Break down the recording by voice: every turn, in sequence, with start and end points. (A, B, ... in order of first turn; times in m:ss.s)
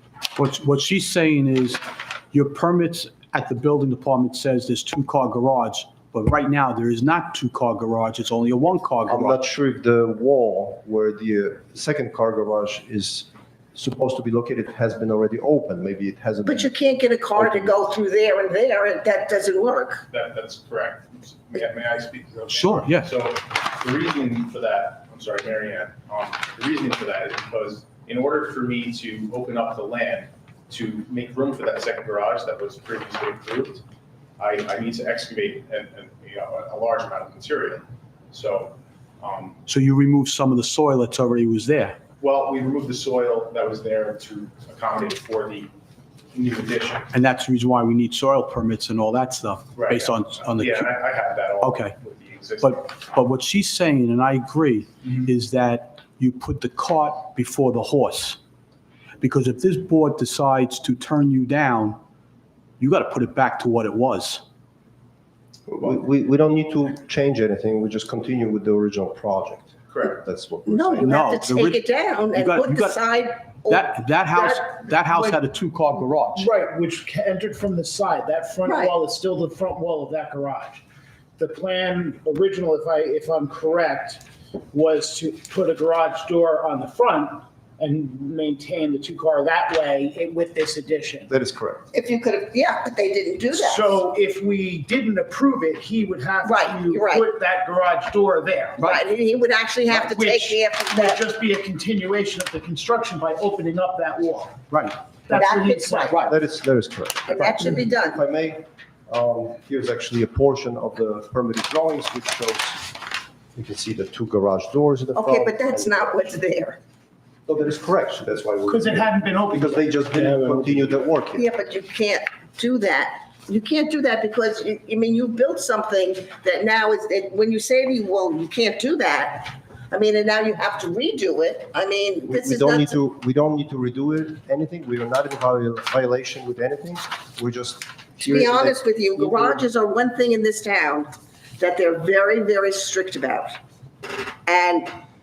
0:00.3-0:09.4 A
0:09.1-0:16.8 B
0:16.4-0:20.0 C
0:17.3-0:17.8 B
0:20.1-0:33.8 D
0:22.5-0:23.1 A
0:34.4-0:39.6 D
0:39.6-0:42.0 A
0:42.2-0:45.7 D
0:46.3-0:47.1 D
0:47.1-0:50.9 A
0:49.7-0:52.9 D
0:51.6-0:51.9 A
0:52.6-0:58.4 A
0:59.2-1:02.0 A
1:02.8-1:04.4 A
1:05.7-1:11.1 B
1:09.9-1:10.2 D
1:10.6-1:14.6 C
1:11.0-1:13.0 A
1:13.7-1:16.5 A
1:15.1-1:15.4 E
1:16.3-1:20.8 E
1:18.6-1:19.0 C
1:21.4-1:31.3 E
1:31.3-1:31.9 B
1:31.9-1:34.0 C
1:33.5-1:39.0 E
1:36.4-1:37.3 C
1:38.8-1:41.2 C
1:39.8-1:44.6 E
1:44.7-1:45.0 A
1:45.3-1:46.3 E
1:45.3-1:46.3 C
1:46.2-1:52.9 B
1:47.3-1:48.2 C
1:53.5-1:56.2 B
1:55.1-1:56.8 C
1:57.5-2:01.4 B
1:58.7-2:00.6 E
2:01.3-2:13.0 C
2:12.2-2:19.6 B
2:18.2-2:23.5 C
2:24.1-2:24.9 C